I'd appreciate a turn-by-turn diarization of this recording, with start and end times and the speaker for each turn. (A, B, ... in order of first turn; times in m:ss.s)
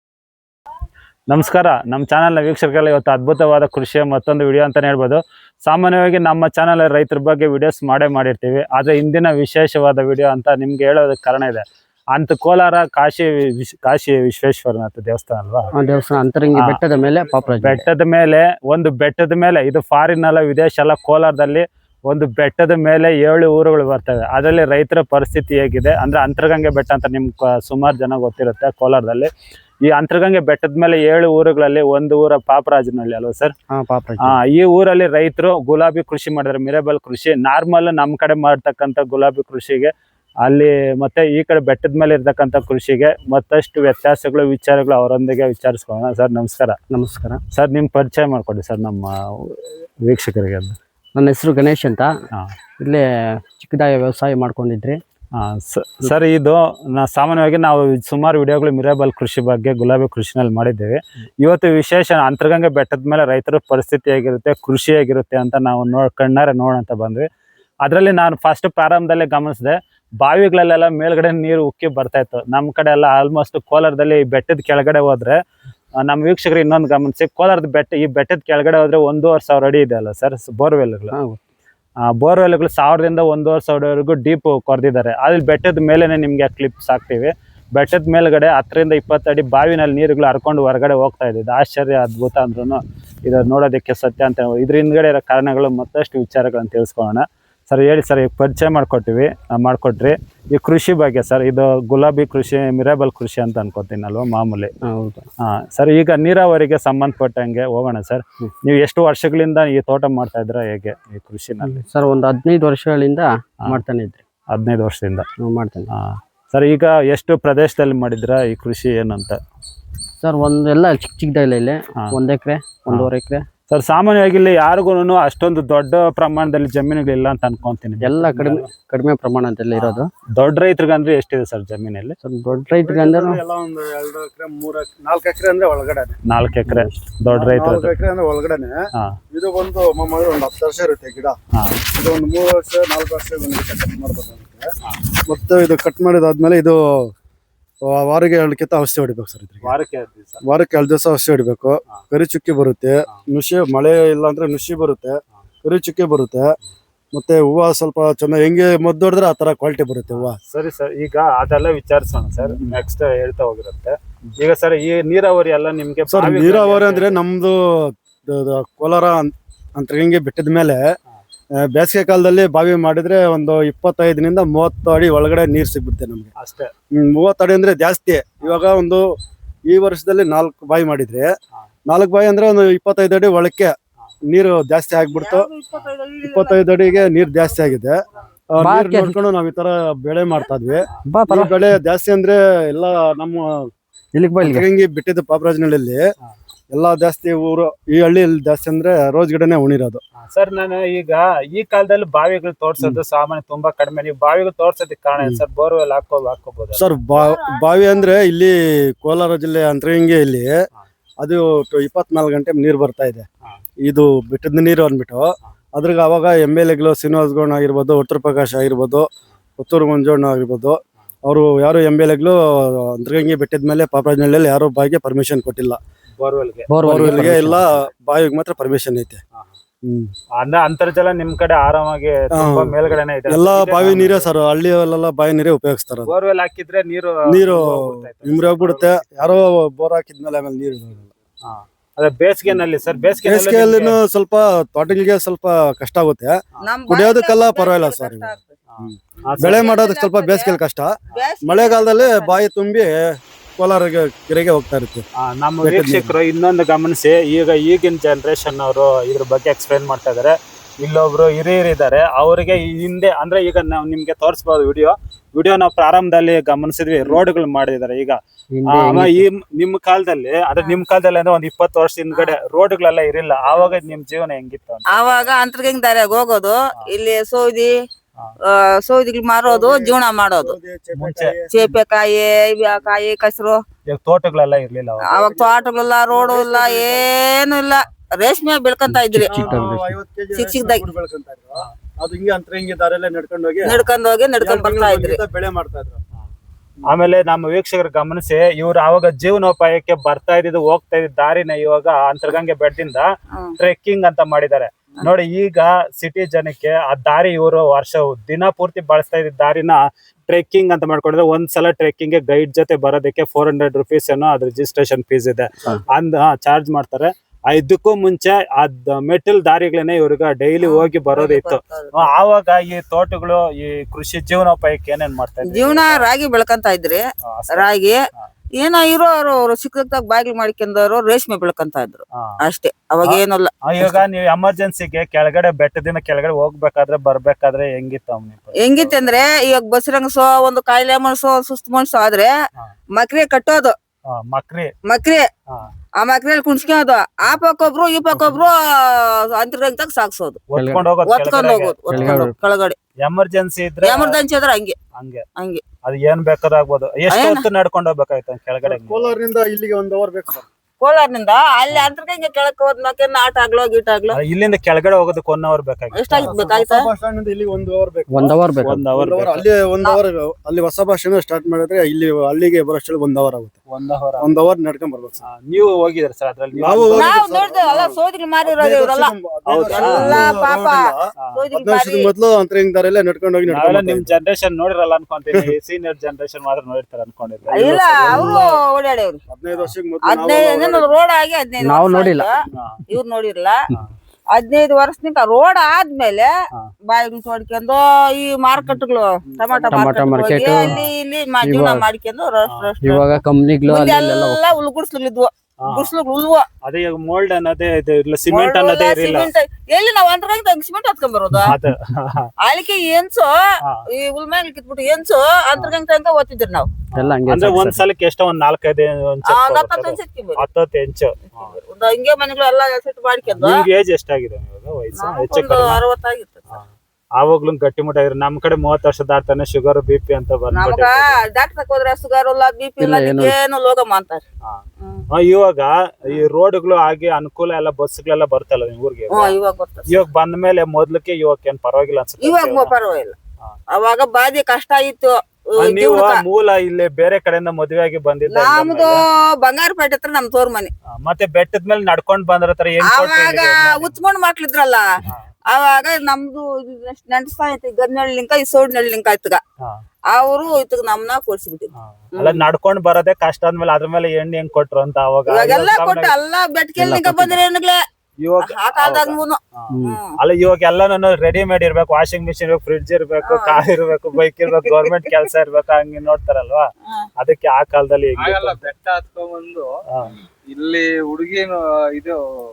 0:01.3-0:15.7 A
0:15.7-0:17.8 B
0:15.8-0:16.4 C
0:17.1-0:17.5 C
0:17.6-0:29.3 A
0:29.8-0:33.5 A
0:33.7-0:34.4 B
0:34.2-0:39.9 A
0:40.4-0:46.8 A
0:46.9-0:47.4 B
0:47.5-0:50.8 A
0:51.1-0:52.1 B
0:52.8-0:55.0 B
0:55.4-1:07.3 A
1:07.8-1:15.4 A
1:16.0-1:21.1 A
1:21.1-1:21.4 B
1:22.0-1:44.7 A
1:44.8-1:45.2 B
1:45.4-1:51.8 A
1:51.6-1:54.2 B
1:54.5-1:55.2 A
1:55.4-1:55.9 B
1:55.9-1:59.4 A
2:00.2-2:03.4 B
2:03.7-2:08.7 A
2:08.0-2:10.1 B
2:09.7-2:12.2 A
2:12.2-2:13.4 B
2:12.8-2:16.2 C
2:16.2-2:17.9 A
2:16.7-2:16.9 B
2:17.3-2:18.8 C
2:19.3-2:21.4 C
2:21.9-2:24.7 C
2:25.3-2:27.1 C
2:27.9-2:29.7 C
2:29.6-2:30.4 A
2:30.4-2:36.5 C
2:37.1-2:40.4 C
2:40.1-2:47.2 A
2:42.4-2:42.7 C
2:46.1-2:50.8 C
2:51.6-2:56.3 C
2:56.4-2:56.7 A
2:56.9-2:59.0 C
2:59.7-3:01.3 C
3:01.9-3:03.7 C
3:04.3-3:05.5 C
3:05.1-3:07.3 D
3:06.2-3:08.0 C
3:08.5-3:13.6 C
3:08.6-3:09.2 B
3:10.3-3:10.8 D
3:11.0-3:11.5 B
3:14.1-3:14.7 B
3:14.4-3:16.0 C
3:16.7-3:20.0 C
3:20.2-3:26.8 A
3:26.8-3:30.5 C
3:27.1-3:28.1 D
3:31.2-3:33.2 C
3:33.8-3:39.0 C
3:39.6-3:45.8 C
3:46.2-3:46.7 A
3:46.7-3:47.7 B
3:46.8-3:49.2 C
3:49.8-3:50.1 C
3:50.4-3:54.3 A
3:52.3-3:52.8 C
3:53.3-3:56.1 C
3:56.1-3:59.0 A
3:57.3-4:01.1 C
4:01.4-4:04.0 A
4:03.2-4:06.4 C
4:06.6-4:08.5 D
4:06.9-4:15.0 C
4:08.7-4:09.7 A
4:09.2-4:10.6 D
4:11.1-4:12.4 D
4:15.2-4:35.3 A
4:15.6-4:16.1 C
4:28.5-4:29.2 B
4:34.9-4:37.7 D
4:38.5-4:40.5 D
4:39.4-4:41.7 C
4:40.9-4:41.3 A
4:41.5-4:43.6 D
4:43.9-4:45.1 A
4:45.1-4:49.4 D
4:45.1-4:47.0 C
4:48.9-4:49.9 B
4:49.2-4:53.8 C
4:50.3-4:50.8 D
4:53.6-4:55.2 D
4:54.4-4:56.0 C
4:56.9-5:26.1 A
5:20.6-5:22.1 D
5:25.4-5:27.0 D
5:27.2-5:28.3 A
5:27.6-5:28.0 D
5:28.6-5:34.0 D
5:32.1-5:32.4 A
5:33.0-5:39.0 A
5:38.6-5:42.3 D
5:43.0-5:43.7 D
5:44.1-5:44.7 A
5:44.9-5:45.3 D
5:46.0-5:50.4 D
5:50.5-5:52.3 A
5:50.5-5:50.9 B
5:51.0-5:52.8 D
5:51.9-5:52.3 B
5:53.0-5:54.2 A
5:53.8-5:54.8 D
5:54.9-5:55.2 A
5:55.4-5:55.6 D
5:55.8-5:59.1 A
5:57.1-5:57.4 D
5:58.6-6:00.4 C
6:00.8-6:04.2 D
6:04.1-6:06.3 A
6:05.9-6:06.9 D
6:06.1-6:08.4 C
6:08.1-6:08.8 B
6:08.6-6:09.4 A
6:08.9-6:13.6 C
6:13.7-6:14.3 A
6:14.2-6:15.2 C
6:15.3-6:17.1 A
6:16.6-6:24.1 C
6:16.9-6:19.1 D
6:19.5-6:20.3 A
6:19.7-6:22.1 D
6:23.5-6:28.5 A
6:27.5-6:29.2 D
6:28.1-6:28.6 C
6:29.3-6:30.9 C
6:30.1-6:32.3 D
6:31.6-6:32.3 B
6:32.5-6:32.8 A
6:32.9-6:33.6 D
6:34.3-6:36.3 D
6:36.9-6:46.5 D
6:39.7-6:40.8 B
6:40.5-6:40.9 A
6:41.4-6:41.8 B
6:42.8-6:44.4 B
6:45.6-6:45.9 A
6:46.6-6:49.3 A
6:48.3-6:51.5 D
6:51.4-6:52.3 A
6:52.4-6:53.3 D
6:53.9-6:56.7 D
6:56.9-6:57.8 B
6:57.0-7:01.5 A
6:59.3-7:00.4 D
7:01.3-7:03.6 D
7:03.3-7:05.8 A
7:05.0-7:06.5 D
7:06.5-7:11.2 A
7:10.5-7:14.2 D
7:12.8-7:13.4 B
7:14.4-7:19.3 A
7:19.1-7:20.0 D
7:19.9-7:22.7 A
7:22.2-7:23.2 D
7:23.7-7:26.2 D
7:25.6-7:29.0 A
7:28.3-7:30.7 D
7:30.9-7:34.0 A
7:32.9-7:34.8 D
7:35.5-7:39.4 D
7:40.1-7:42.4 D
7:41.8-7:46.1 A
7:45.3-7:47.8 D
7:46.8-7:47.4 B
7:48.2-7:56.6 A
7:48.5-7:50.1 D
7:49.7-7:50.0 B
7:53.3-7:53.6 D
7:57.2-7:58.6 A
7:58.2-7:59.7 E
7:59.9-8:00.2 A
8:00.4-8:02.2 E